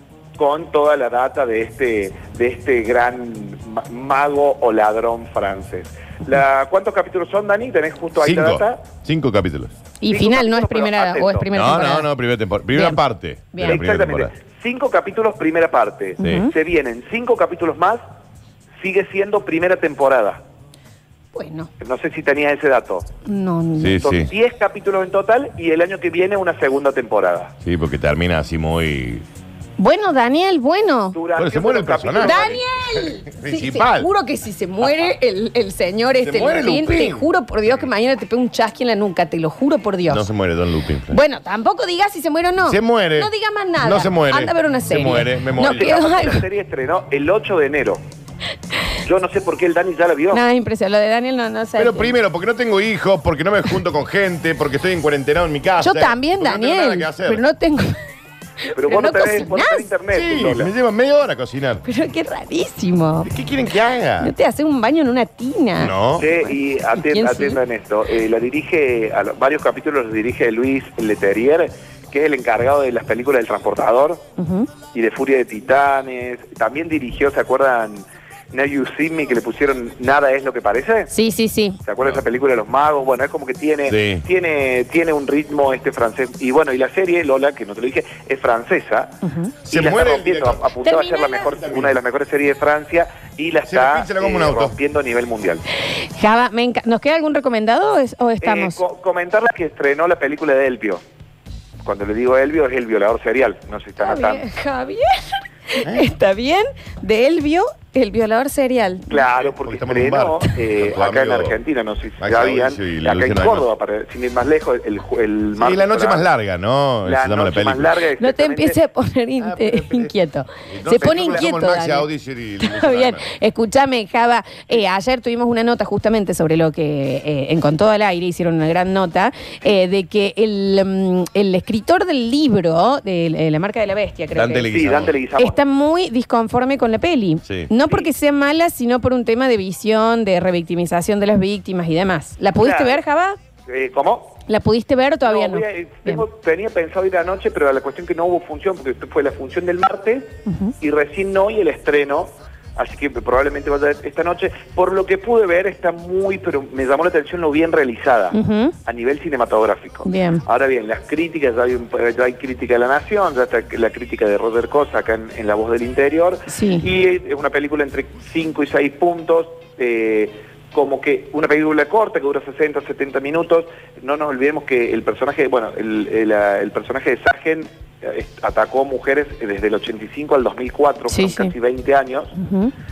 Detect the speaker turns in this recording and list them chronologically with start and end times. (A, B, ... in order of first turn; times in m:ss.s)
0:00.4-0:08.9 A
0:08.2-0:09.8 B
0:10.0-0:12.1 C
0:10.1-0:11.4 A
0:11.5-0:14.3 B
0:12.7-0:13.0 C
0:13.5-0:13.8 C
0:13.6-0:18.0 A
0:16.2-0:16.5 C
0:16.2-0:16.5 B
0:18.8-0:20.4 A
0:21.3-0:21.7 C
0:21.8-0:23.1 A
0:23.2-0:24.1 C
0:23.8-0:24.3 B
0:24.0-0:27.5 A
0:27.6-0:29.2 B
0:29.8-0:31.2 C
0:31.1-0:32.6 A
0:31.3-0:32.6 B
0:32.2-0:40.2 C
0:33.3-0:34.1 B
0:36.2-0:37.3 B
0:40.1-0:41.2 B
0:41.1-0:46.4 C
0:42.6-0:46.0 B
0:45.5-0:48.0 A
0:49.0-0:50.4 A
0:50.3-0:52.1 C
0:51.8-0:57.4 B
0:55.8-0:57.9 C
0:58.7-0:59.9 C
0:58.8-1:00.7 A
1:00.1-1:01.8 B
1:01.8-1:03.3 C
1:03.2-1:04.3 B
1:04.2-1:07.6 C
1:05.8-1:06.3 B
1:06.2-1:14.2 A
1:14.4-1:14.7 C
1:14.9-1:21.1 A
1:21.1-1:21.8 C
1:21.8-1:29.2 A
1:23.8-1:24.2 B
1:29.2-1:29.5 C
1:29.7-1:35.6 A
1:29.7-1:30.7 B
1:30.8-1:31.7 C
1:31.6-1:31.9 B
1:33.7-1:34.8 B
1:36.2-1:38.8 C
1:38.4-1:41.0 A
1:41.8-1:44.4 A
1:44.0-1:49.1 C
1:49.1-1:56.3 A
1:49.4-1:51.6 B
1:52.2-1:53.7 B
1:55.6-1:57.9 B
1:57.0-1:58.8 A
1:58.2-2:02.1 C
1:59.4-2:00.1 B
2:00.7-2:03.3 B
2:00.9-2:01.5 A
2:02.6-2:14.7 C
2:14.3-2:15.1 B
2:14.7-2:15.6 A
2:15.4-2:23.4 C
2:17.4-2:17.7 B
2:22.6-2:23.0 A
2:23.7-2:24.4 A
2:24.4-2:26.2 C
2:25.2-3:02.3 A
2:30.4-2:30.7 C
2:38.3-2:38.7 C
2:40.0-2:40.4 C
2:46.5-2:46.9 C
3:01.1-3:01.5 C
3:02.4-3:02.7 C